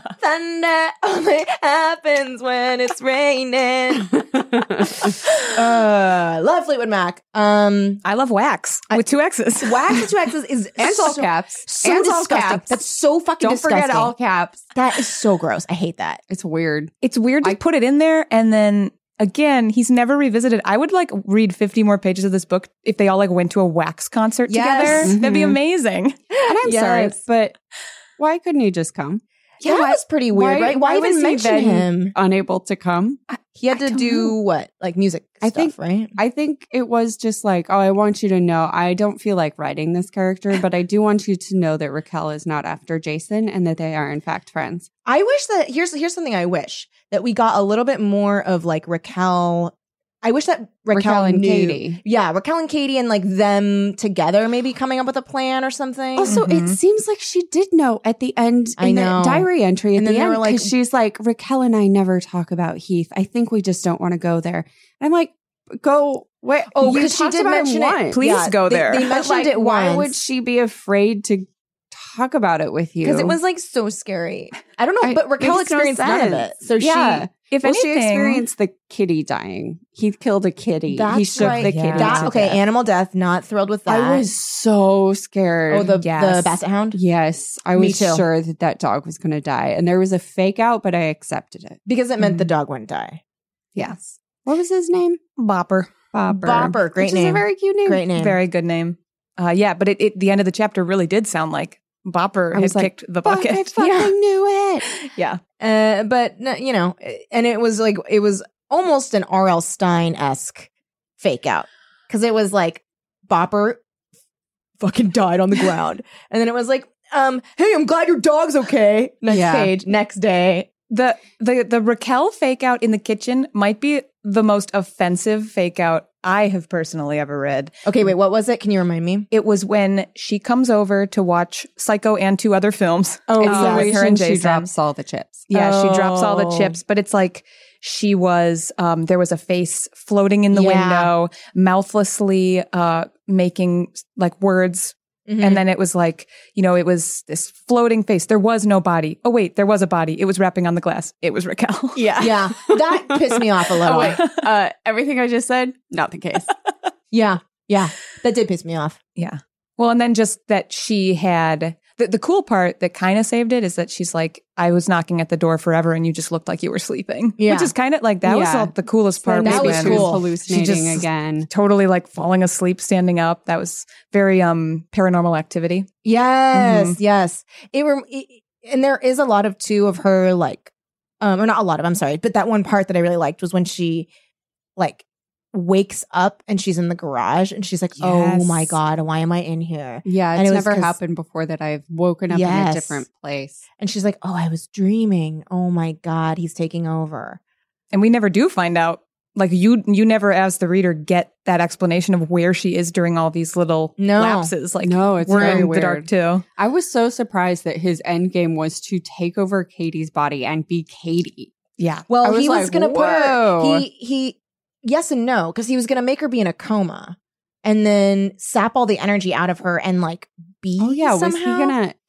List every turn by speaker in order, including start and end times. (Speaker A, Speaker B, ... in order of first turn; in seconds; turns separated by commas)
Speaker A: 0.2-4.2, Speaker B: 4.3-5.1, Speaker A: 4.8-8.0, Speaker C: 8.0-10.1, Speaker A: 9.6-14.2, Speaker B: 10.8-12.8, Speaker B: 13.4-14.7, Speaker A: 14.8-16.2, Speaker B: 16.3-17.6, Speaker C: 17.0-26.2, Speaker A: 24.5-25.1, Speaker B: 25.0-25.6, Speaker A: 26.3-27.2, Speaker B: 26.5-27.6, Speaker B: 28.2-33.2, Speaker A: 29.6-32.1, Speaker C: 33.3-34.3, Speaker A: 33.6-36.1, Speaker B: 35.4-44.9, Speaker A: 45.0-56.4, Speaker B: 50.9-52.0, Speaker B: 56.2-68.3, Speaker C: 56.3-56.8, Speaker A: 58.8-60.7, Speaker A: 66.7-70.2, Speaker C: 68.1-69.1, Speaker B: 69.0-73.4, Speaker A: 73.0-77.3, Speaker B: 75.0-82.6, Speaker C: 77.5-78.5, Speaker A: 80.9-84.3, Speaker C: 81.4-82.3, Speaker B: 83.9-91.8, Speaker A: 85.7-87.0, Speaker A: 87.8-88.3, Speaker A: 91.9-93.2, Speaker B: 93.8-95.2, Speaker C: 95.4-95.9, Speaker B: 96.1-98.0, Speaker A: 96.3-98.4, Speaker C: 98.2-103.8, Speaker B: 102.5-104.9, Speaker A: 103.8-104.1, Speaker C: 104.9-105.4, Speaker A: 105.6-113.8, Speaker A: 114.8-120.7, Speaker B: 119.3-119.7, Speaker C: 120.9-127.7, Speaker A: 127.8-129.3, Speaker C: 129.3-134.7, Speaker A: 133.3-134.0, Speaker B: 133.4-135.5, Speaker C: 135.5-152.3, Speaker A: 135.5-136.8, Speaker A: 140.5-141.1, Speaker A: 145.3-145.6, Speaker B: 152.0-153.1, Speaker A: 152.1-154.2, Speaker B: 153.8-156.5, Speaker C: 154.0-154.4, Speaker A: 157.1-159.0, Speaker C: 159.2-175.9, Speaker A: 167.4-167.7, Speaker B: 168.3-171.5, Speaker A: 169.4-170.3, Speaker A: 176.1-184.1, Speaker C: 176.5-177.0, Speaker A: 184.8-191.0, Speaker C: 188.0-188.8, Speaker B: 190.1-193.6, Speaker A: 192.3-193.0, Speaker A: 193.8-197.4, Speaker C: 197.9-206.4, Speaker A: 204.0-204.5, Speaker B: 204.8-211.5, Speaker A: 205.3-205.8, Speaker C: 211.8-212.1, Speaker A: 212.1-221.8, Speaker B: 212.2-213.8, Speaker B: 220.8-221.9